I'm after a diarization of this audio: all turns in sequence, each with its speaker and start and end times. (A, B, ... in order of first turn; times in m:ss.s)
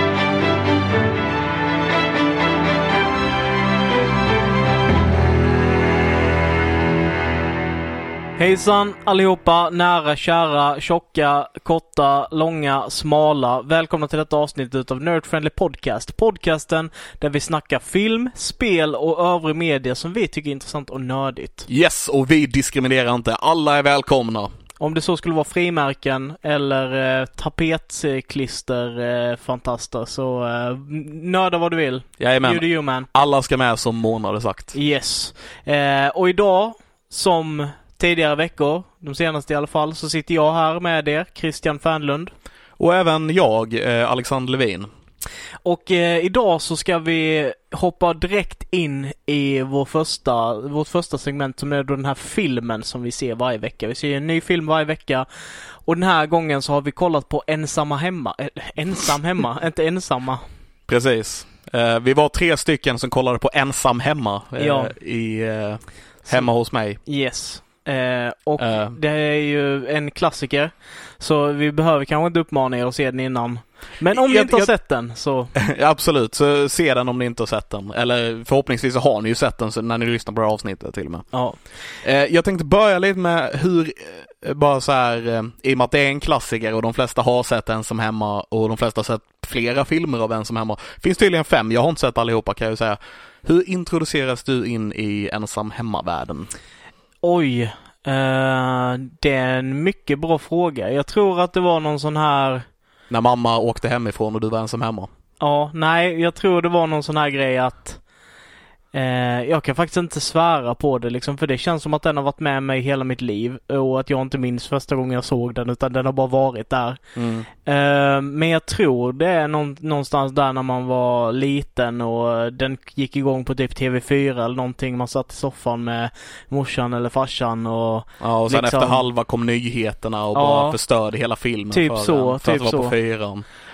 0:08.4-0:21.6 A
0:21.7-0:24.5 B
0:24.8-0:33.1 A
0:32.2-0:34.7 B
0:34.7-0:42.3 A
0:42.8-0:44.9 B
0:45.6-0:55.2 A
0:55.8-1:00.4 A
1:00.9-1:07.0 B
1:04.6-1:04.9 A
1:07.0-1:15.5 A
1:08.6-1:09.0 B
1:14.1-1:14.7 B
1:15.5-1:21.2 B
1:21.3-1:21.6 A
1:22.0-1:36.5 B
1:37.2-1:42.6 A
1:43.1-1:45.1 B
1:45.4-1:48.0 A
1:48.9-1:57.0 A
1:57.1-1:57.5 B
1:57.6-2:09.0 A
2:08.2-2:13.4 B
2:10.3-2:10.8 A
2:11.7-2:13.0 A